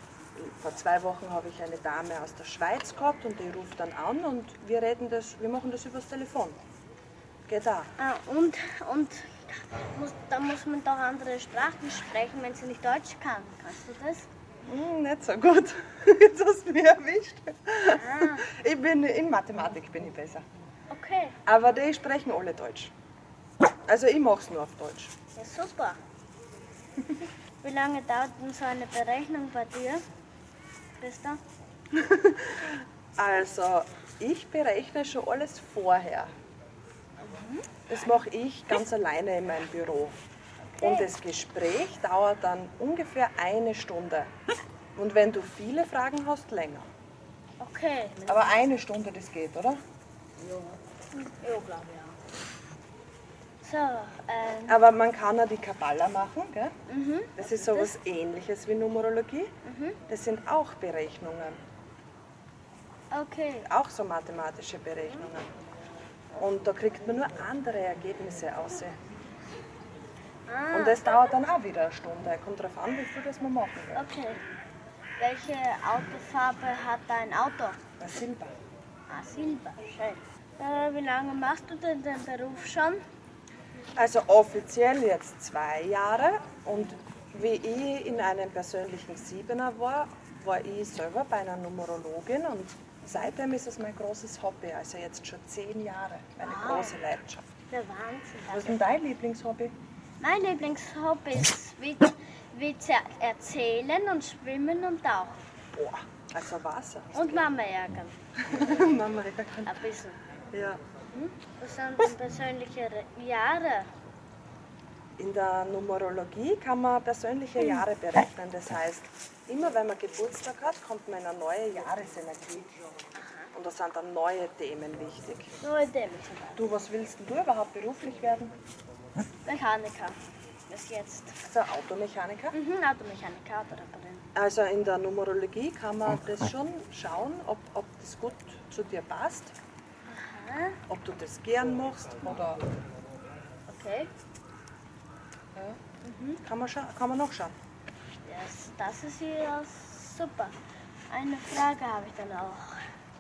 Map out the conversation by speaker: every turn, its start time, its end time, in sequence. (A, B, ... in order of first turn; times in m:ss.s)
0:00.3-0:06.6 A
0:07.5-0:07.9 A
0:08.0-0:14.3 B
0:14.6-0:20.4 A
0:17.9-0:18.4 B
0:20.9-0:21.4 B
0:21.4-0:22.9 A
0:23.9-0:25.1 A
0:25.4-0:26.0 B
0:27.6-0:30.0 B
0:31.0-0:31.4 B
0:31.9-0:36.3 A
0:37.2-0:38.1 B
0:37.9-0:40.2 A
0:40.7-0:44.3 A
0:40.8-0:41.1 B
0:45.0-0:46.9 A
0:47.6-0:48.6 B
0:48.3-0:49.8 A
0:50.4-0:52.2 B
0:53.6-0:54.8 B
0:54.7-0:56.8 A
0:56.9-0:57.9 B
0:57.4-0:59.5 A
0:59.6-1:00.0 B
1:00.1-1:01.6 A
1:03.1-1:03.7 B
1:03.6-1:05.5 A
1:06.4-1:09.0 A
1:10.4-1:11.2 B
1:10.7-1:14.1 A
1:13.9-1:14.4 B
1:15.2-1:17.8 B
1:18.0-1:18.5 A
1:19.1-1:23.0 B
1:24.0-1:37.4 A
1:36.4-1:37.0 B
1:37.7-1:38.8 B
1:38.5-1:39.7 A
1:40.2-1:45.4 B
1:45.7-1:47.5 A
1:47.1-1:48.2 B
1:48.4-1:49.8 A
1:49.6-1:50.2 B
1:50.5-1:50.8 A
1:51.1-1:53.9 B
1:55.2-2:02.7 A
2:03.1-2:03.5 B
2:03.5-2:05.5 A
2:05.6-2:06.6 B
2:06.6-2:08.5 A
2:09.4-2:10.2 B
2:10.7-2:11.4 B
2:11.4-2:12.6 A
2:12.5-2:14.3 B
2:14.3-2:19.5 A
2:20.1-2:20.8 B
2:20.9-2:22.7 A
2:23.7-2:24.1 B
2:26.0-2:26.4 B
2:26.4-2:27.5 A
2:28.2-2:30.5 B
2:31.1-2:32.8 B